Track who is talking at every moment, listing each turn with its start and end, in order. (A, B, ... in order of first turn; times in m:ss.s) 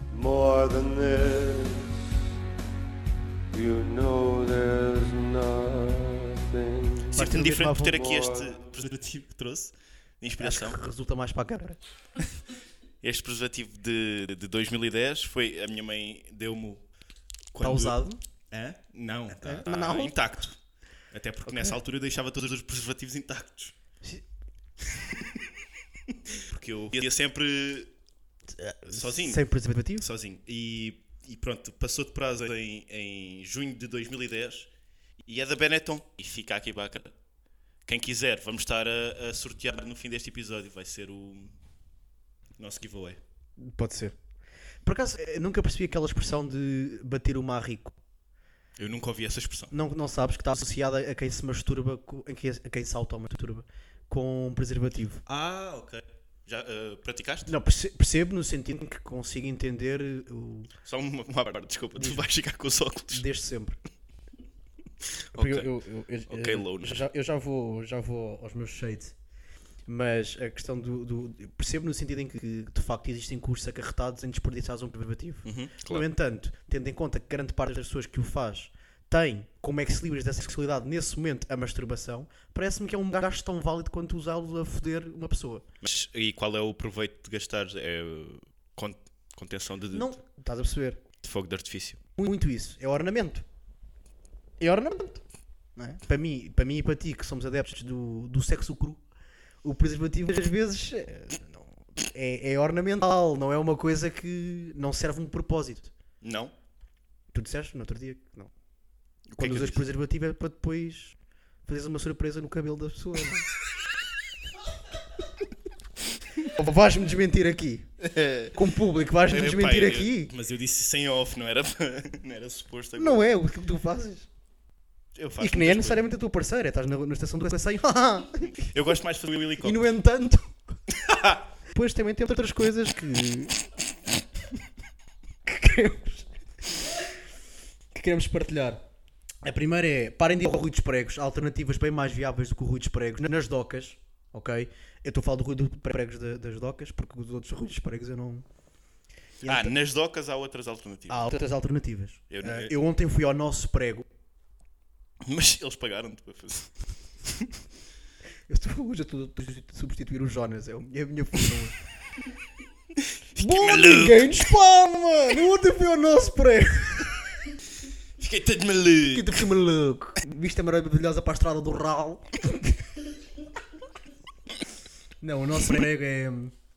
0:00.1-0:01.9 A
0:03.5-0:08.6 A
0:07.1-0:08.0 B
0:07.1-0:10.8 C
0:10.4-0:11.8 B
0:13.0-0:16.8 C
0:17.5-0:18.0 C
0:17.6-0:18.2 B
0:18.5-0:20.6 C
0:19.3-0:20.2 B
0:21.1-0:23.7 C
0:21.5-0:21.8 B
0:25.1-0:25.4 C
0:26.1-0:27.9 C
0:28.5-0:30.1 B
0:28.9-0:34.7 C
0:35.2-0:37.1 C
0:37.8-0:41.6 C
0:42.6-0:43.2 C
0:43.6-0:44.2 B
0:44.8-0:48.0 B
0:48.8-0:49.7 C
0:49.7-0:55.2 B
0:55.2-0:57.5 C
0:57.5-1:00.7 B
1:00.8-1:03.2 C
1:02.0-1:02.2 B
1:03.1-1:03.8 B
1:05.3-1:05.7 C
1:05.3-1:09.1 B
1:06.3-1:07.0 C
1:09.8-1:25.6 B
1:15.4-1:16.1 C
1:25.8-1:30.1 C
1:29.9-1:31.0 B
1:31.2-1:32.0 C
1:32.2-1:33.4 B
1:34.6-1:35.2 B
1:35.8-1:39.0 B
1:39.6-1:45.9 B
1:46.2-1:46.5 C
1:47.3-1:48.5 B
1:49.3-1:49.9 C
1:49.4-1:51.1 B
1:51.6-1:53.5 B
1:56.4-1:57.9 B
1:58.0-1:58.6 C
1:58.5-2:00.3 B
1:59.2-2:03.2 C
2:03.0-2:04.3 B
2:05.1-2:06.0 C
2:05.4-2:08.7 B
2:08.7-2:09.9 C
2:09.6-2:10.6 B
2:10.9-2:11.5 C
2:11.7-2:13.6 B
2:15.4-2:16.3 B
2:17.9-2:18.8 B
2:19.4-2:28.4 B
2:29.4-2:29.7 B
2:29.4-2:31.4 C
2:31.1-2:34.0 B
2:32.3-2:32.7 C
2:35.2-2:37.6 C
2:38.5-2:41.8 B
2:43.0-2:44.4 C
2:43.4-2:47.3 B
2:48.2-2:49.5 C
2:49.1-2:52.8 B
2:55.2-2:56.5 B